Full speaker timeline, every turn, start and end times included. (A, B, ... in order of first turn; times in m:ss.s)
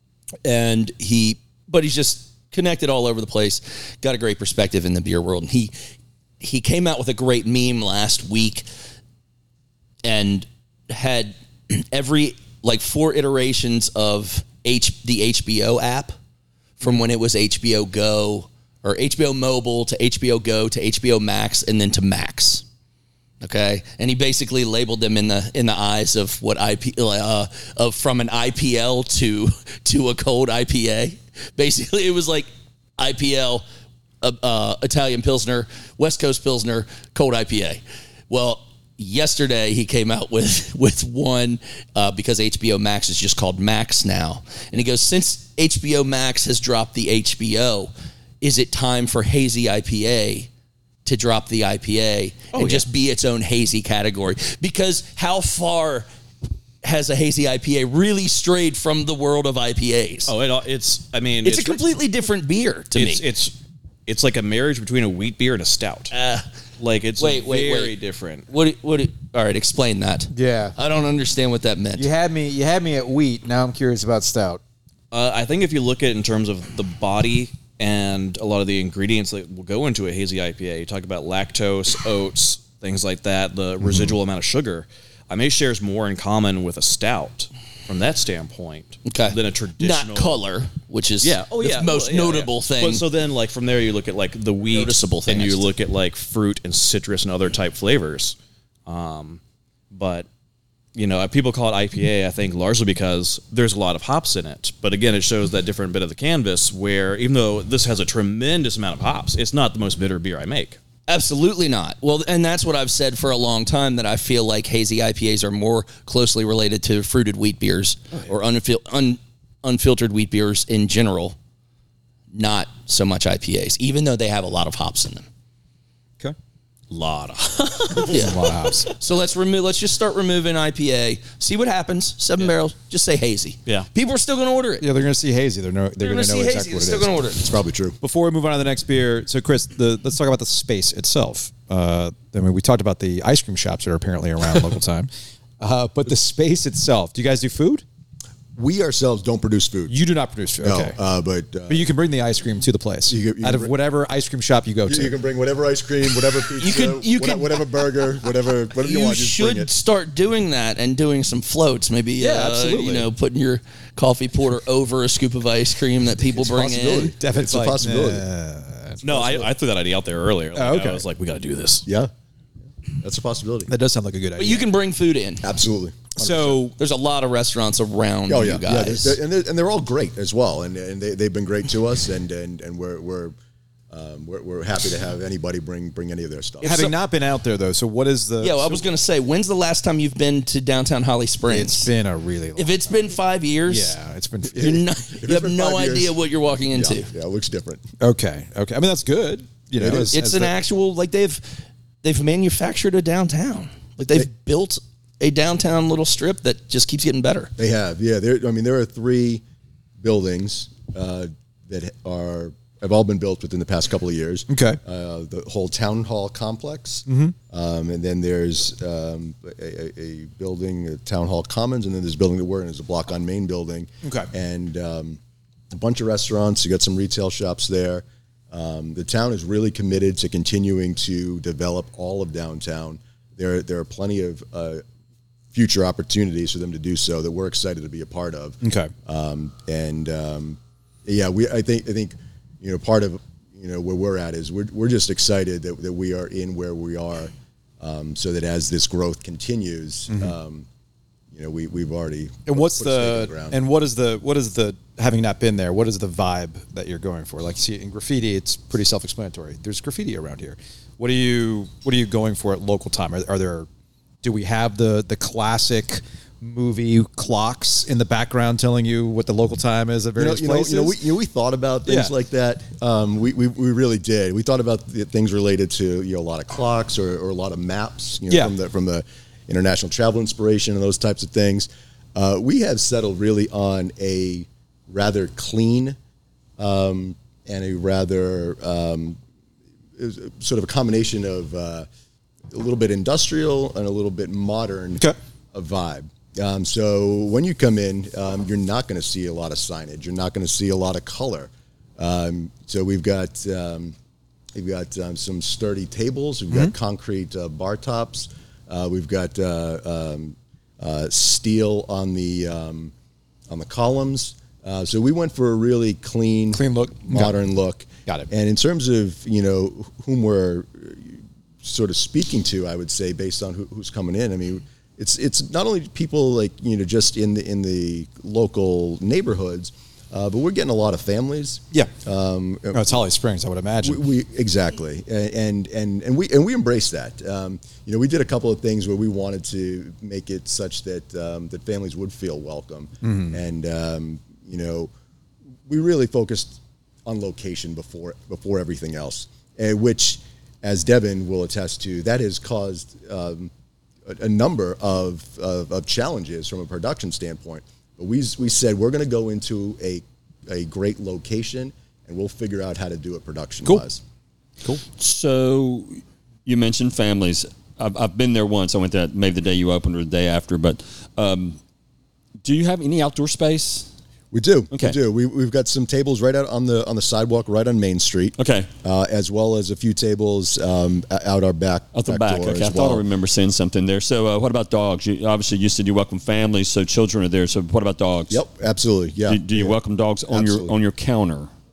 0:00.4-0:05.7 A
0:06.4-0:08.6 A
0:10.0-0:16.1 A
0:16.8-0:22.6 A
0:23.4-0:33.6 A
0:34.2-0:50.5 A
0:51.0-0:56.1 A
0:52.5-0:52.8 B
0:56.8-1:00.3 A
1:00.3-1:01.8 B
1:01.4-1:03.2 A
1:02.9-1:03.5 B
1:04.1-1:06.1 B
1:06.1-1:06.5 A
1:06.8-1:08.4 B
1:07.2-1:07.9 A
1:08.5-1:12.1 A
1:10.3-1:10.8 C
1:12.0-1:14.6 C
1:15.1-1:30.4 B
1:29.0-1:33.0 A
1:31.2-1:40.3 B
1:34.7-1:35.7 A
1:40.9-1:50.8 B
1:51.1-2:01.4 A
2:02.3-2:05.2 A
2:06.9-2:08.2 B
2:08.0-2:08.9 C
2:08.0-2:14.8 A
2:14.8-2:17.1 C
2:16.0-2:17.5 A
2:17.4-2:18.0 D
2:18.0-2:25.1 C
2:25.6-2:27.8 C
2:28.5-2:29.9 D
2:29.9-2:31.0 C
2:30.6-2:31.9 D
2:31.7-2:35.1 C
2:33.1-2:33.7 D
2:34.9-2:39.7 D
2:36.6-2:38.0 A
2:38.7-2:47.1 A
2:42.2-2:43.1 C
2:46.2-2:48.2 D
2:47.1-2:49.0 C
2:49.0-2:51.9 B
2:50.5-2:51.0 C
2:51.8-2:52.1 D
2:52.9-2:53.7 D
2:53.7-2:54.7 C
2:54.4-2:55.5 A
2:55.4-2:56.6 D
2:56.2-2:56.8 C
2:56.8-2:59.2 A
2:58.3-3:03.3 D
3:03.9-3:06.8 D
3:06.6-3:08.8 C
3:06.6-3:06.9 A
3:08.4-3:11.9 A
3:11.5-3:12.9 C
3:12.6-3:14.0 A
3:13.6-3:14.8 C
3:14.5-3:17.1 A
3:14.5-3:17.8 D
3:18.0-3:20.5 C
3:19.8-3:20.0 D
3:19.8-3:27.5 A
3:27.6-3:29.4 D
3:30.0-3:45.2 D
3:34.5-3:34.8 C
3:37.1-3:37.3 C
3:44.0-3:44.3 C
3:45.7-3:54.8 D
3:55.5-4:10.7 D
3:58.6-3:58.9 C
4:11.3-4:13.6 D
4:12.5-4:23.7 C
4:24.2-4:31.0 C
4:30.2-4:46.0 D
4:31.9-4:32.1 C
4:46.6-4:49.2 D
4:50.0-4:51.9 D
4:52.5-5:03.9 D
5:04.5-5:12.9 D
5:13.5-5:32.9 D
5:16.5-5:17.4 C
5:32.7-5:34.0 C
5:33.8-5:44.9 D
5:43.0-5:43.4 C
5:45.7-5:53.5 D
5:54.0-6:04.0 D
6:04.6-6:11.6 E
6:12.4-6:13.9 E
6:14.3-6:23.0 D
6:18.4-6:18.7 E
6:21.9-6:28.4 E
6:28.3-6:29.8 D
6:29.3-6:31.5 E
6:30.3-6:30.7 D